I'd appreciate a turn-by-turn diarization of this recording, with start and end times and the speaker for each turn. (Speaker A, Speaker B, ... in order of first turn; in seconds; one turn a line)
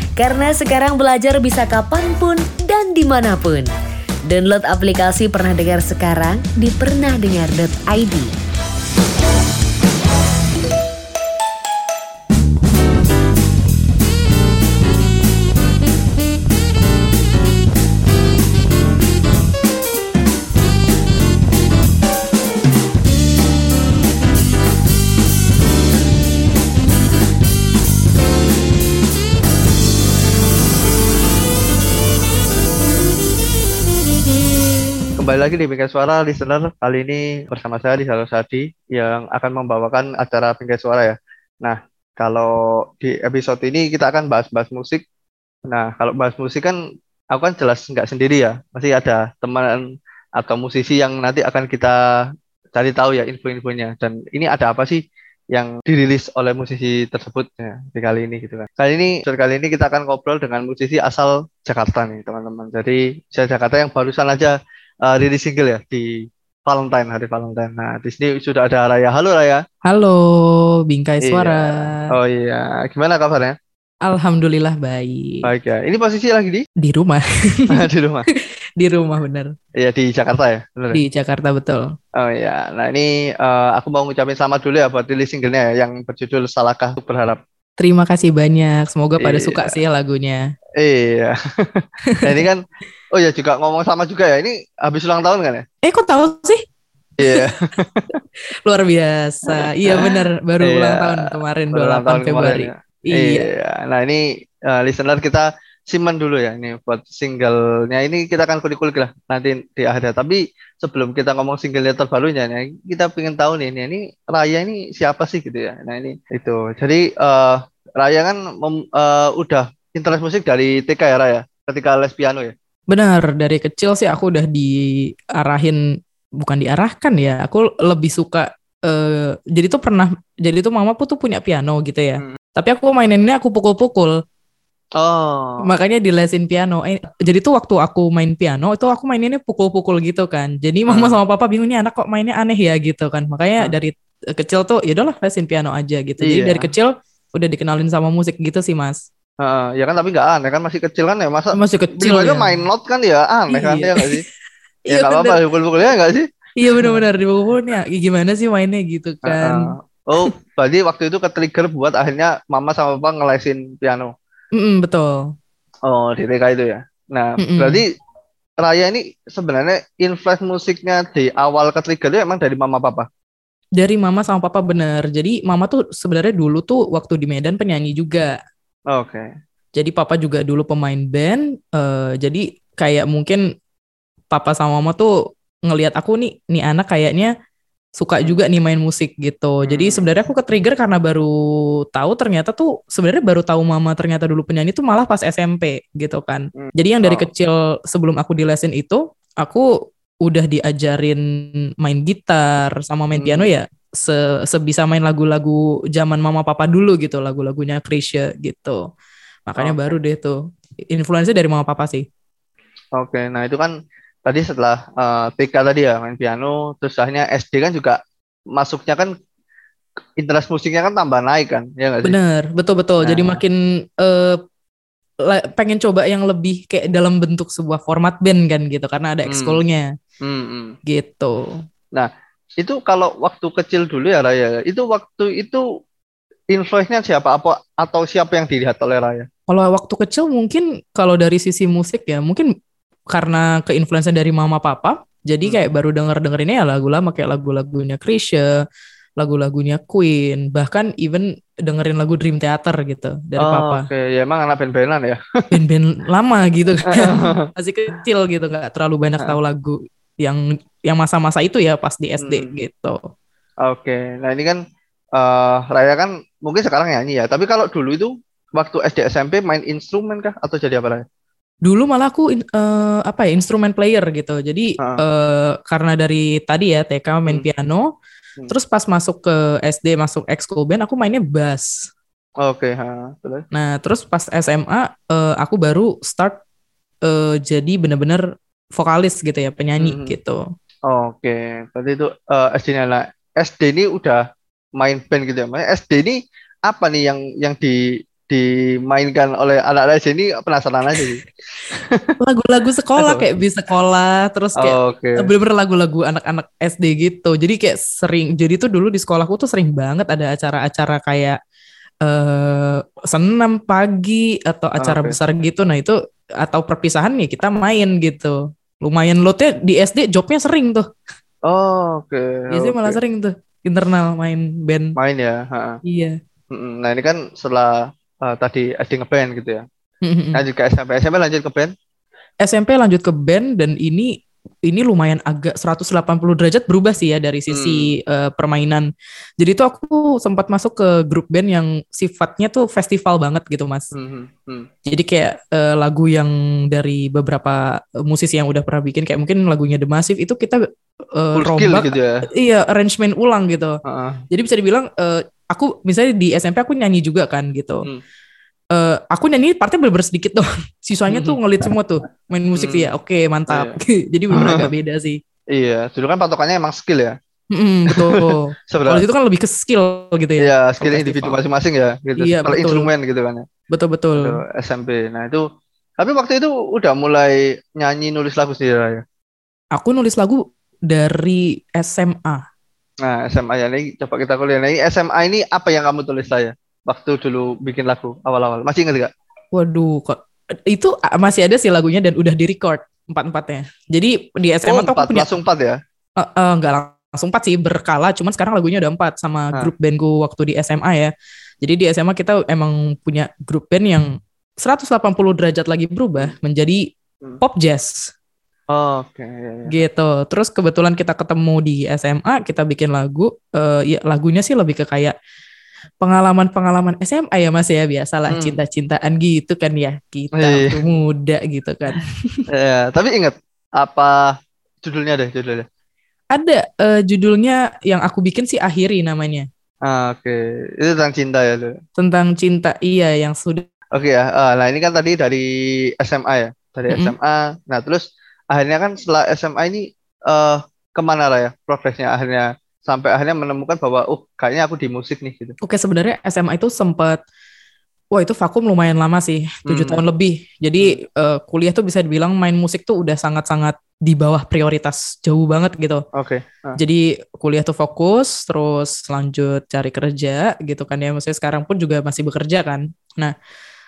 Speaker A: 0.2-3.7
Speaker A: 4.3-8.3
Speaker B: 35.2-45.0
Speaker B: 45.7-46.8
Speaker B: 47.3-49.8
Speaker B: 50.4-52.0
Speaker B: 52.8-55.0
Speaker B: 55.5-64.5
Speaker B: 65.0-66.1
Speaker B: 66.7-69.6
Speaker C: 69.8-72.1
Speaker B: 71.2-73.6
Speaker C: 74.0-75.5
Speaker B: 75.4-76.7
Speaker C: 76.8-79.5
Speaker B: 77.7-78.3
Speaker B: 79.8-81.0
Speaker C: 80.9-81.9
Speaker B: 82.2-87.4
Speaker C: 87.8-90.4
Speaker B: 89.2-89.8
Speaker B: 90.8-95.7
Speaker C: 92.1-92.5
Speaker C: 95.8-96.6
Speaker B: 97.2-98.2
Speaker C: 97.2-97.8
Speaker C: 98.7-103.5
Speaker B: 99.5-122.5
Speaker C: 122.9-125.8
Speaker C: 126.4-134.1
Speaker B: 135.0-135.7
Speaker C: 135.6-149.0
Speaker B: 146.2-146.7
Speaker B: 149.4-154.2
Speaker C: 151.5-152.6
Speaker C: 153.5-154.3
Speaker C: 154.9-155.4
Speaker B: 154.9-156.2
Speaker C: 156.6-160.3
Speaker B: 156.8-157.0
Speaker B: 159.3-164.1
Speaker C: 164.6-165.3
Speaker B: 165.9-167.9
Speaker C: 167.4-167.8
Speaker B: 168.6-173.1
Speaker C: 173.8-178.3
Speaker B: 178.9-179.3
Speaker C: 179.8-183.4
Speaker C: 184.3-185.1
Speaker C: 185.7-187.3
Speaker C: 188.0-191.3
Speaker B: 189.7-190.1
Speaker C: 191.9-199.7
Speaker B: 196.6-197.3
Speaker C: 200.2-208.8
Speaker B: 203.2-203.5
Speaker C: 209.5-210.4
Speaker B: 209.6-209.9
Speaker C: 210.9-212.1
Speaker B: 213.0-213.7
Speaker B: 214.3-218.0
Speaker B: 218.5-219.1
Speaker B: 220.2-222.2
Speaker C: 222.0-224.4
Speaker B: 223.0-223.4
Speaker C: 225.3-229.8
Speaker B: 229.3-229.6
Speaker B: 230.2-230.7
Speaker C: 230.9-231.5
Speaker B: 231.9-235.6
Speaker B: 236.5-239.3
Speaker C: 239.5-242.4
Speaker C: 243.1-248.5
Speaker C: 249.2-253.8
Speaker B: 253.4-255.2
Speaker C: 255.5-263.0
Speaker B: 256.9-257.5
Speaker B: 262.2-262.5
Speaker B: 263.6-264.6
Speaker B: 265.1-271.1
Speaker C: 271.6-277.9
Speaker C: 278.5-281.7
Speaker B: 282.4-283.4
Speaker C: 283.5-286.4
Speaker C: 287.1-288.2
Speaker C: 288.8-290.4
Speaker B: 289.8-290.2
Speaker B: 290.9-294.2
Speaker B: 294.8-302.1
Speaker C: 302.2-311.4
Speaker B: 303.0-303.2
Speaker B: 304.6-305.3
Speaker C: 312.0-320.9
Speaker B: 314.8-315.2
Speaker B: 321.5-323.0
Speaker C: 322.5-324.9
Speaker B: 325.0-325.8
Speaker C: 325.8-326.1
Speaker B: 326.5-329.6
Speaker C: 330.0-330.4
Speaker B: 330.3-331.7
Speaker C: 332.4-334.1
Speaker C: 334.7-338.9
Speaker B: 337.5-337.9
Speaker C: 339.4-343.9
Speaker B: 343.9-344.7
Speaker C: 344.9-350.6
Speaker C: 351.1-353.8
Speaker B: 351.4-352.3
Speaker B: 353.9-354.2
Speaker C: 354.3-357.9
Speaker C: 358.7-365.2
Speaker B: 361.1-361.4
Speaker B: 362.6-362.9
Speaker B: 363.5-363.8
Speaker B: 364.3-364.7
Speaker B: 365.5-367.1
Speaker C: 367.5-371.4
Speaker B: 367.9-369.1
Speaker B: 370.4-373.4
Speaker C: 372.2-372.9
Speaker C: 373.7-374.4
Speaker B: 374.2-375.4
Speaker B: 376.0-379.0
Speaker C: 379.8-382.4
Speaker B: 383.0-389.1
Speaker C: 389.5-395.3
Speaker B: 394.7-395.8
Speaker C: 396.2-406.9
Speaker C: 407.4-408.1
Speaker B: 408.7-409.8
Speaker C: 409.7-415.1
Speaker C: 416.0-422.4
Speaker B: 418.3-418.6
Speaker B: 420.4-420.8
Speaker B: 422.5-425.7
Speaker C: 426.3-429.5
Speaker B: 429.9-431.8
Speaker C: 432.0-433.6
Speaker B: 433.9-435.5
Speaker B: 436.0-445.6
Speaker C: 436.9-437.1
Speaker C: 445.6-447.2
Speaker C: 448.1-456.0
Speaker B: 449.7-450.0
Speaker B: 456.1-456.8
Speaker C: 456.8-463.3